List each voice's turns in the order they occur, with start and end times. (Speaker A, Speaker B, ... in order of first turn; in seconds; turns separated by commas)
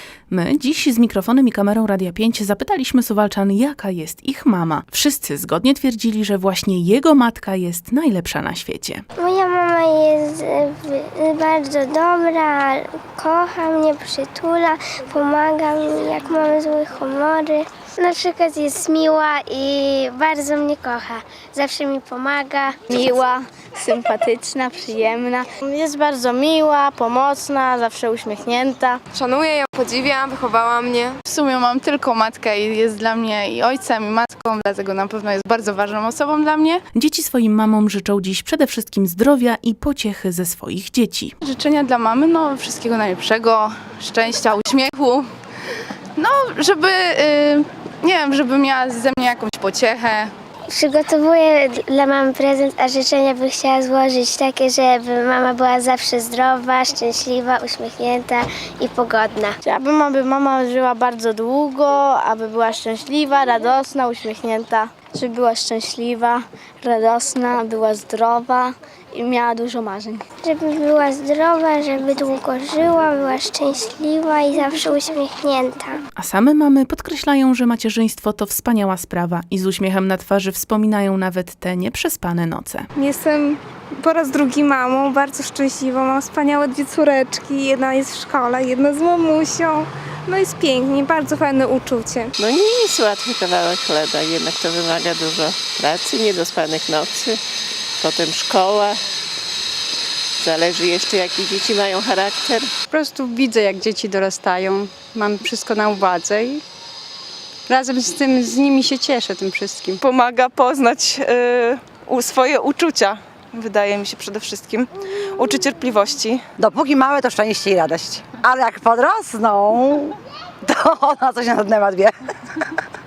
Speaker A: 0.3-9.0, Speaker B: 9.2-22.8, Speaker C: 22.9-29.0, Speaker D: 29.1-31.2, Speaker E: 31.3-36.8, Speaker A: 37.0-41.3, Speaker E: 41.5-45.2, Speaker E: 46.2-50.3, Speaker B: 50.7-59.6, Speaker C: 59.6-70.2, Speaker B: 70.4-76.0, Speaker A: 76.2-82.9, Speaker F: 83.0-92.3, Speaker G: 92.4-97.4, Speaker G: 98.0-99.0, Speaker G: 100.4-102.7, Speaker H: 102.9-106.6, Speaker H: 107.7-110.0, Speaker I: 110.0-116.4, Speaker J: 116.6-122.1